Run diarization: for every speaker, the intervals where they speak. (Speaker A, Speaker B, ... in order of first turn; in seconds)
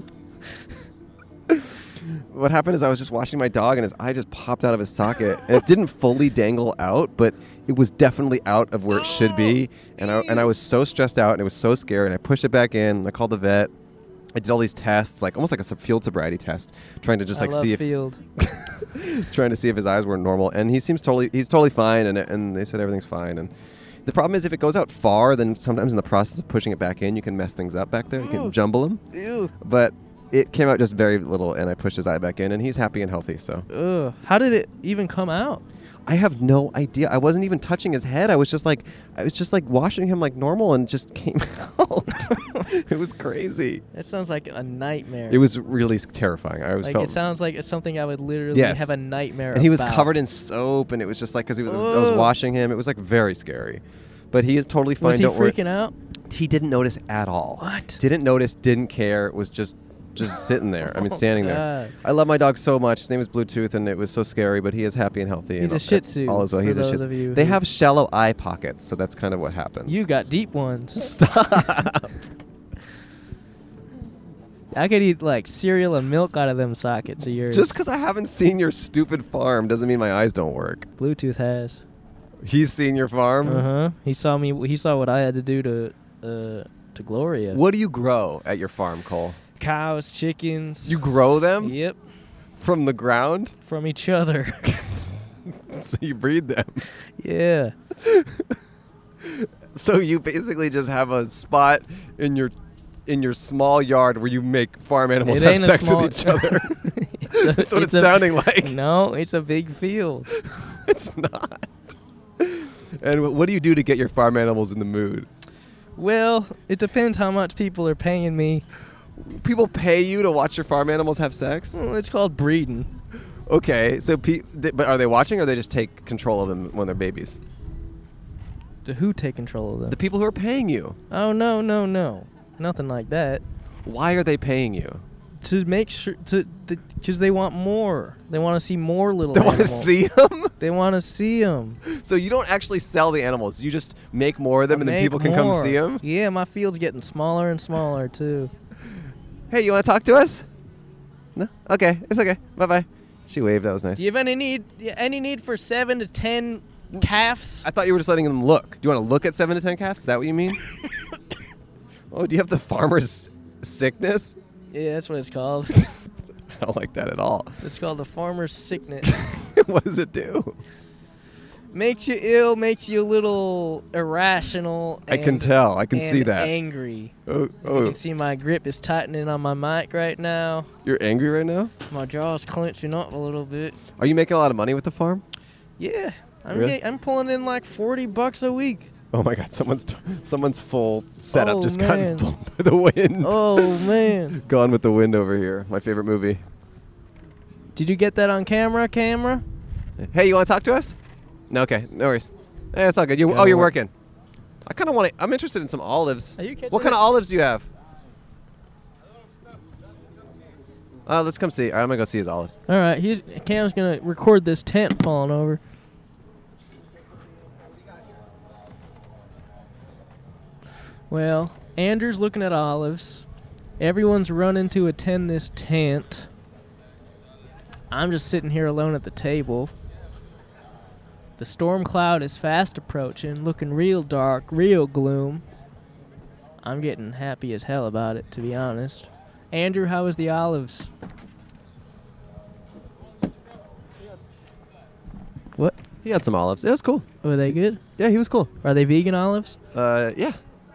Speaker A: 1.5-13.7, 14.3-17.8, 18.4-23.5, 24.0-29.0, 29.6-33.6, 36.0-43.8, 45.3-47.2, 48.5-48.9, 49.5-55.6, 56.3-70.0, 70.9-72.1, 77.5-80.9, 82.4-83.7, 87.5-89.4, 90.8-91.7, 92.6-93.5, 94.7-96.8, 98.0-98.5, 99.2-102.5, 103.0-108.8, 110.3-115.3, 119.2-121.8, 123.5-127.4, 129.9-131.0, 133.8-135.0, 139.3-140.5, 141.8-146.0, 149.5-150.4, 151.3-154.0, 157.6-160.6, 162.1-164.4, 166.5-167.5, 169.0-170.6, 175.1-176.5, 177.2-178.0, 180.8-181.7, 184.0-185.2, 186.5-186.8, 189.1-196.4, 200.0-200.9, 201.5-203.9, 204.6-207.7, 211.1-212.6, 246.0-247.1, 248.0-248.5, 249.7-250.4
Speaker B: 17.3-18.2, 28.2-28.5, 29.1-29.5, 33.7-35.6, 43.9-45.4, 46.8-50.1, 51.6-52.3, 55.0-55.9, 57.6-58.0, 61.0-61.9, 65.6-67.6, 69.8-71.1, 74.7-77.7, 81.0-81.8, 83.4-87.6, 89.6-91.0, 91.6-92.0, 93.7-94.7, 97.2-97.7, 105.2-110.3, 116.0-118.6, 121.7-122.9, 128.8-130.0, 131.1-133.4, 135.4-139.9, 140.6-141.8, 144.7-148.5, 154.0-157.7, 164.7-165.8, 167.6-169.1, 171.7-180.7, 181.9-183.8, 185.8-188.9, 191.3-192.3, 193.2-194.4, 197.8-199.4, 203.2-203.7, 206.4-207.0, 212.7-215.6, 221.1-223.2, 223.8-226.3, 227.9-229.7, 231.4-235.4, 236.6-240.9, 247.2-247.8, 248.6-249.6